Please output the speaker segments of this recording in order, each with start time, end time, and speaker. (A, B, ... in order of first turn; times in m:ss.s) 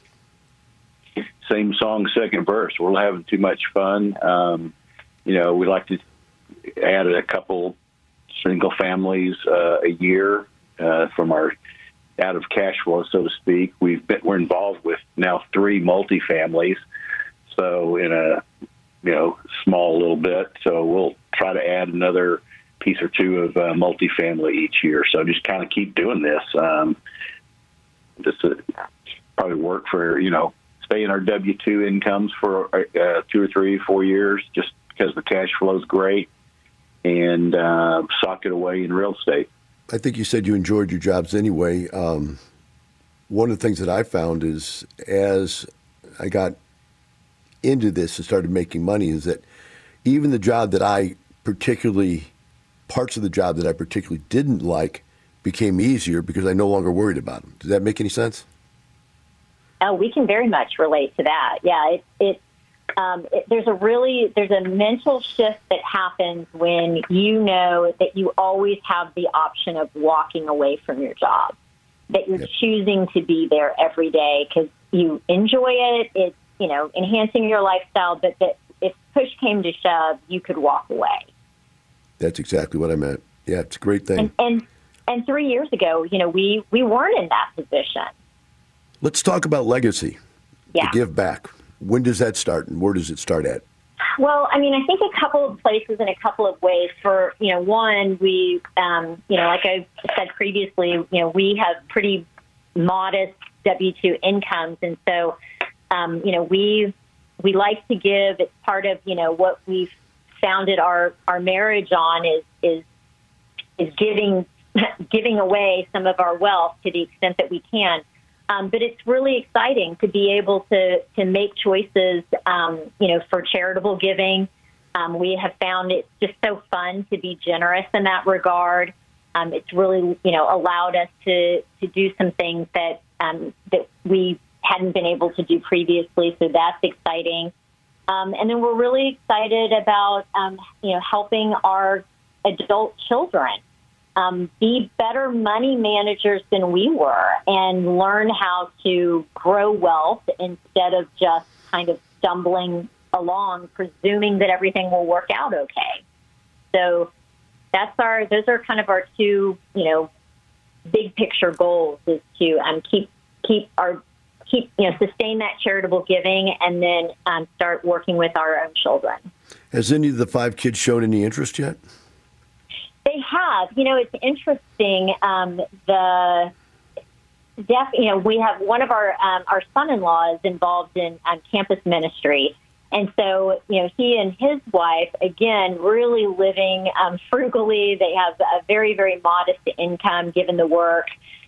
0:01.4-0:04.7 A
0:05.2-0:06.0 A
0:06.8-0:07.8 A
0:08.4-0:11.5 A
0:12.2-0:16.8 A
0:17.5-0:18.4 A
0:19.0-0:27.0 A
0:28.2-0:28.7 A
0:29.4-0:36.3 A
0:37.0-0:39.5 A
0:39.9-0:42.4 B
0:43.3-0:46.6 B
0:47.6-0:49.4 B
0:50.0-0:52.3 B
0:52.9-0:58.4 B
0:59.8-1:02.4 C
1:03.0-1:11.6 C
1:12.1-1:21.3 C
1:22.2-1:24.3 B
1:24.2-1:28.1 C
1:29.0-1:30.2 B
1:30.8-1:33.6 B
1:34.2-1:45.4 C
1:45.9-1:52.8 C
1:53.8-2:17.5 C
2:18.1-2:23.6 C
2:24.2-2:36.0 C
2:36.7-2:37.1 C
2:37.7-2:40.1 C
2:40.9-2:49.3 C
2:49.7-2:51.8 B
2:53.1-2:56.5 C
2:57.6-3:11.1 C